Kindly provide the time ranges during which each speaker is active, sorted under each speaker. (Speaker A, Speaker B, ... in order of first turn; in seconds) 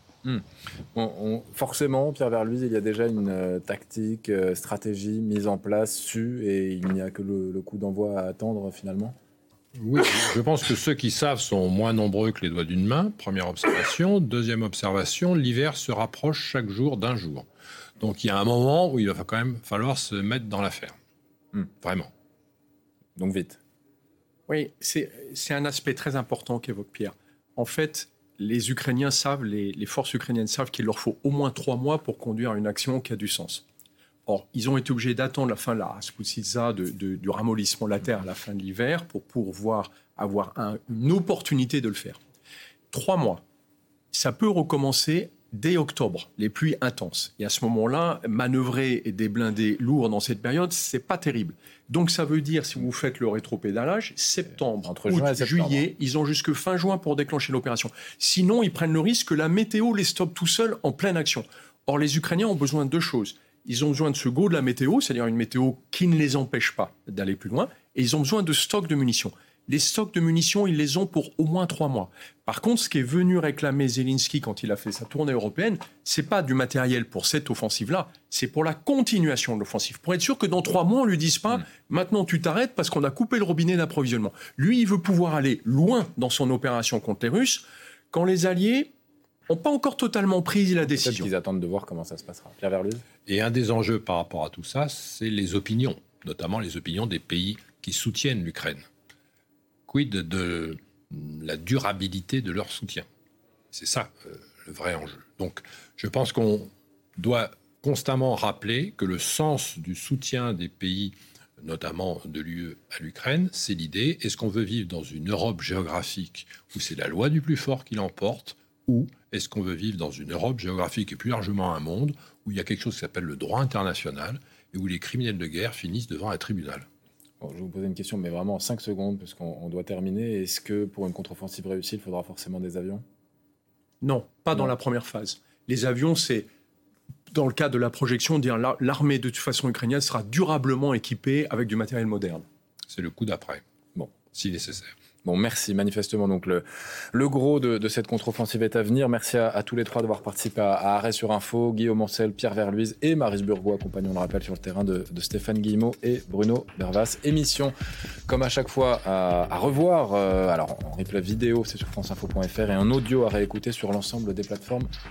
Speaker A: 0.2-9.2, 23.1-23.6, 54.9-55.9, 90.9-93.0, 127.4-133.0, 145.2-157.7, 158.3-164.9
Speaker B: 9.8-17.5, 18.0-20.9, 21.8-22.1, 93.3-98.9, 99.9-103.1, 103.7-126.9, 142.9-143.6, 144.3-144.9
Speaker C: 24.5-33.6, 34.3-42.2, 42.9-43.4, 44.1-88.9, 89.5-91.3, 134.0-136.5, 137.3-142.4